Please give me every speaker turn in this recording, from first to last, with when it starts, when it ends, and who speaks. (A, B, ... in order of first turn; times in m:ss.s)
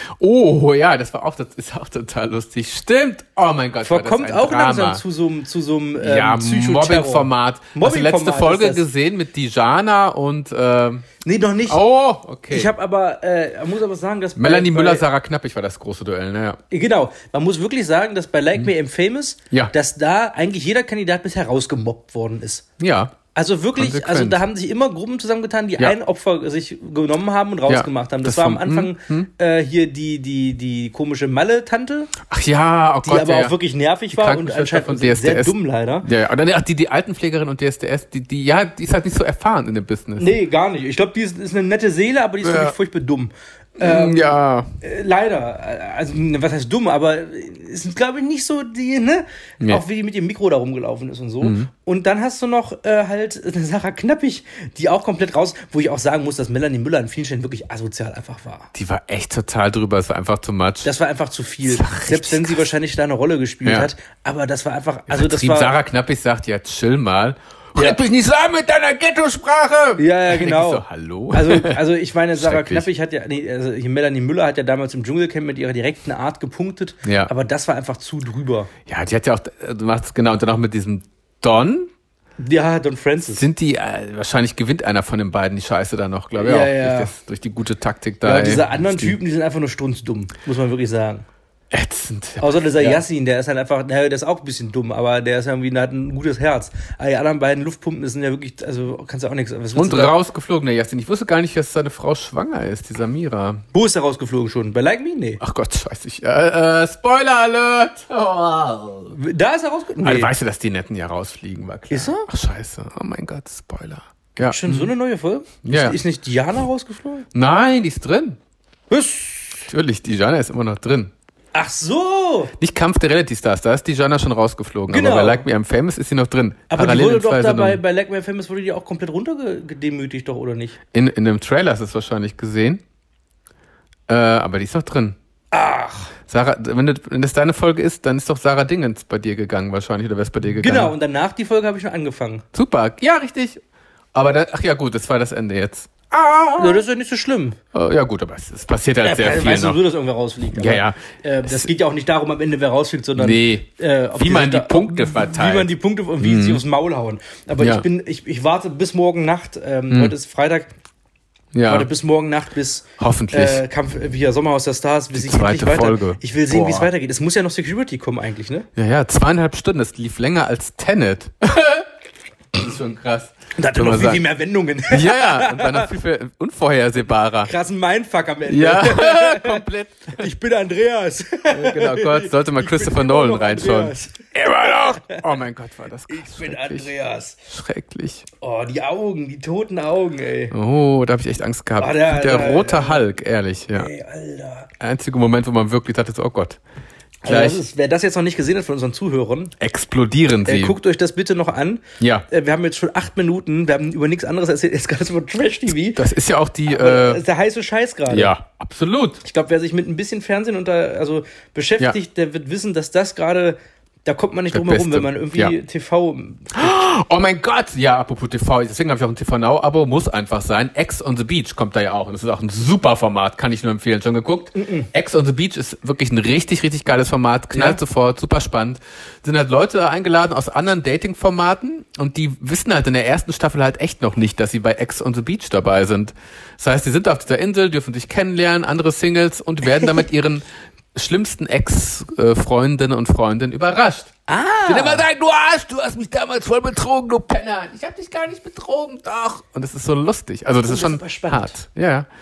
0:00.2-0:05.0 A
0:03.8-0:08.8 B
0:06.0-0:11.0 A
0:11.2-0:11.8 B
0:11.7-0:12.7 A
0:12.5-0:15.0 B
0:14.4-0:16.6 A
0:16.7-0:22.6 B
0:22.8-0:23.1 A
0:23.3-0:32.1 B
0:23.8-0:24.4 A
0:27.7-0:29.3 A
0:32.2-0:33.5 A
0:33.0-0:36.1 B
0:34.1-0:40.3 A
0:40.2-0:58.7 B
0:42.4-0:42.7 A
0:43.8-0:44.7 A
0:51.4-0:51.7 A
0:58.7-1:00.9 A
1:00.8-1:05.7 B
1:01.6-1:02.7 A
1:05.1-1:11.8 A
1:10.0-1:18.7 B
1:12.4-1:12.9 A
1:17.0-1:17.3 A
1:18.9-1:21.9 A
1:22.4-1:23.5 B
1:23.3-1:29.2 A
1:26.4-1:27.1 B
1:28.2-1:31.2 B
1:31.7-1:33.0 A
1:32.4-1:40.1 B
1:39.7-1:43.6 A
1:43.7-1:45.4 B
1:45.4-1:49.1 A
1:49.1-1:50.3 B
1:50.0-1:54.9 A
1:51.9-1:52.3 B
1:54.4-1:57.2 B
1:55.6-1:56.0 A
1:57.3-1:58.4 A
1:58.9-1:59.7 B
1:59.7-2:01.1 A
2:01.5-2:02.5 B
2:02.6-2:07.8 A
2:04.9-2:05.4 B
2:06.7-2:10.8 B
2:10.9-2:12.8 A
2:14.1-2:15.2 A
2:15.5-2:16.1 B
2:16.3-2:20.9 A
2:20.6-2:22.4 B
2:22.5-2:23.6 A
2:24.1-2:26.8 A
2:26.6-2:27.6 B
2:27.7-2:29.8 A
2:29.0-2:40.7 B
2:30.5-2:31.7 A
2:33.2-2:36.6 A
2:41.5-2:41.9 A
2:41.6-2:48.7 B
2:43.0-2:43.6 A
2:45.1-2:46.9 A
2:48.7-2:51.9 A
2:52.5-2:54.2 A
2:53.6-2:55.9 B
2:54.9-2:57.5 A
2:57.4-2:59.6 B
2:58.5-3:00.3 A
3:00.2-3:05.2 B
3:01.5-3:06.9 A
3:06.1-3:07.4 B
3:07.5-3:08.2 A
3:08.4-3:10.5 B
3:10.5-3:13.9 A
3:11.8-3:13.0 B
3:13.7-3:14.7 B
3:14.8-3:16.6 A
3:17.2-3:19.5 B
3:17.2-3:17.6 A
3:19.6-3:20.8 A
3:20.4-3:26.0 B
3:22.0-3:22.2 A
3:25.9-3:27.2 A
3:26.7-3:28.3 B
3:28.1-3:29.2 A
3:29.2-3:36.8 B
3:34.5-3:35.5 A
3:36.5-4:04.1 A
3:44.5-3:44.9 B
3:47.5-3:47.8 B
4:04.3-4:05.0 B
4:04.6-4:12.1 A
4:10.6-4:11.6 B